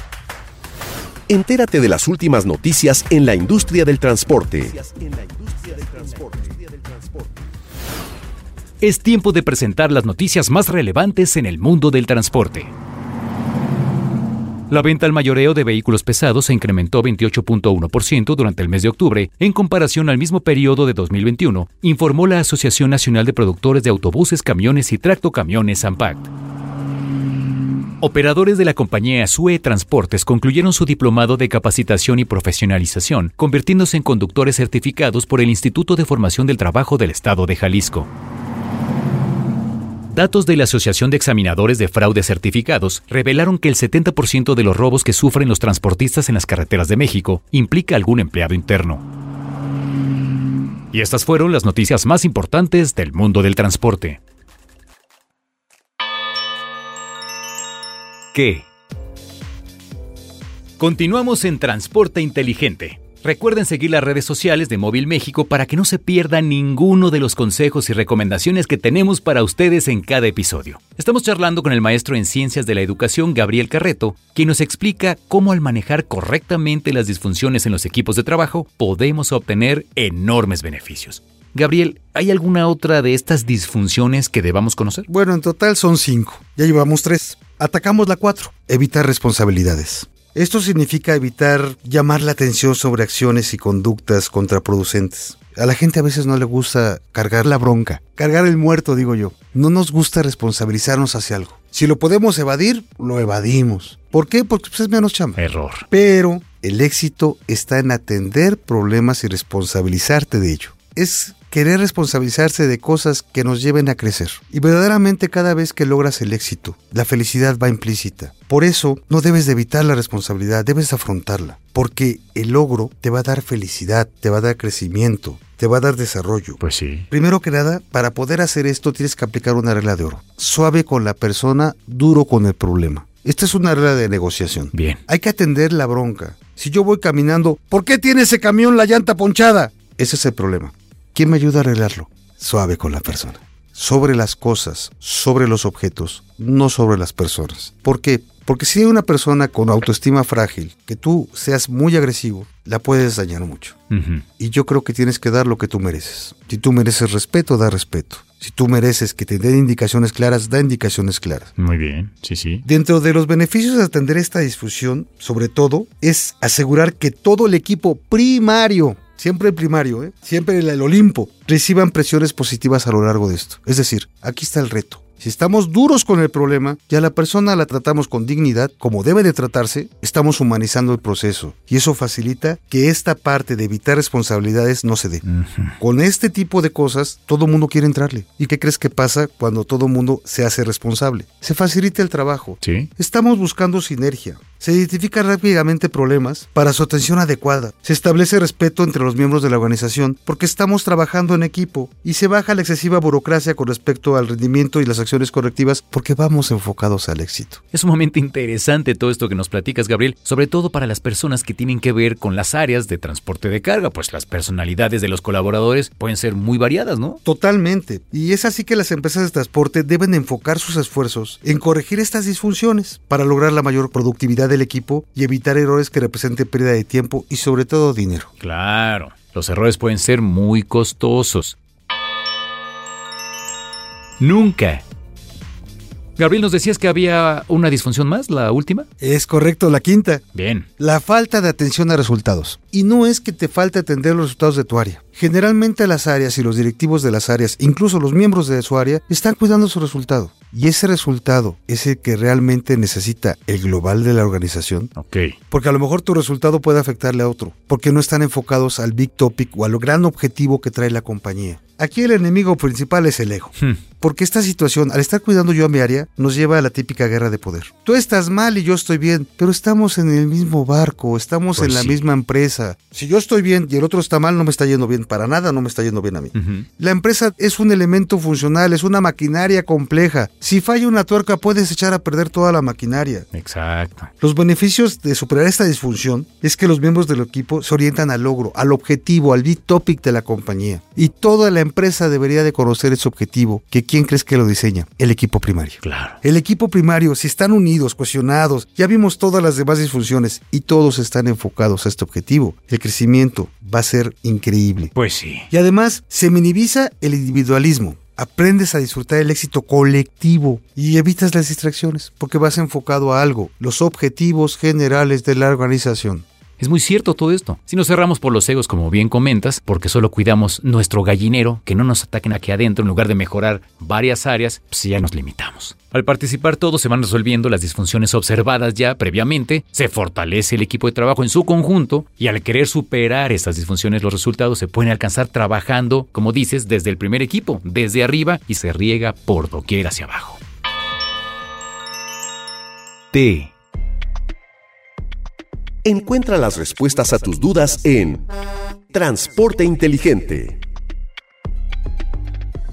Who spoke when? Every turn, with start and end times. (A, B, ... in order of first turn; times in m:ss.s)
0:01.3-0:07.3 A
0:08.8-0:12.7 B
0:14.7-0:26.3 B
0:28.0-0:38.1 B
0:40.1-0:49.0 B
0:50.9-0:54.2 B
0:58.3-0:58.7 B
1:00.8-1:25.1 B
1:25.1-2:06.6 C
1:45.4-1:45.9 B
2:06.6-2:07.1 B
2:07.1-2:33.8 C
2:14.7-2:15.0 B
2:33.9-2:34.2 B
2:34.4-2:41.5 C
2:41.6-2:42.6 B
2:42.6-3:05.2 C
3:05.2-3:05.8 B
3:05.8-3:27.6 C
3:12.6-3:12.9 B
3:27.7-3:37.2 B
3:37.2-3:48.3 C
3:48.4-3:51.6 B
3:54.2-3:54.8 B
3:56.2-3:58.9 B
3:59.0-4:00.2 C
4:00.3-4:00.7 B
4:00.8-4:14.9 C
4:15.0-4:15.4 B
4:15.5-4:43.3 C
4:31.6-4:32.0 B
4:36.3-4:36.6 B
4:43.3-4:44.1 B
4:44.2-5:04.9 C
4:55.8-4:56.2 B
5:04.9-5:05.5 B
5:05.5-5:16.2 C
5:16.6-5:40.4 B
5:43.1-5:43.5 B
5:45.8-5:48.2 A
5:48.9-5:50.6 A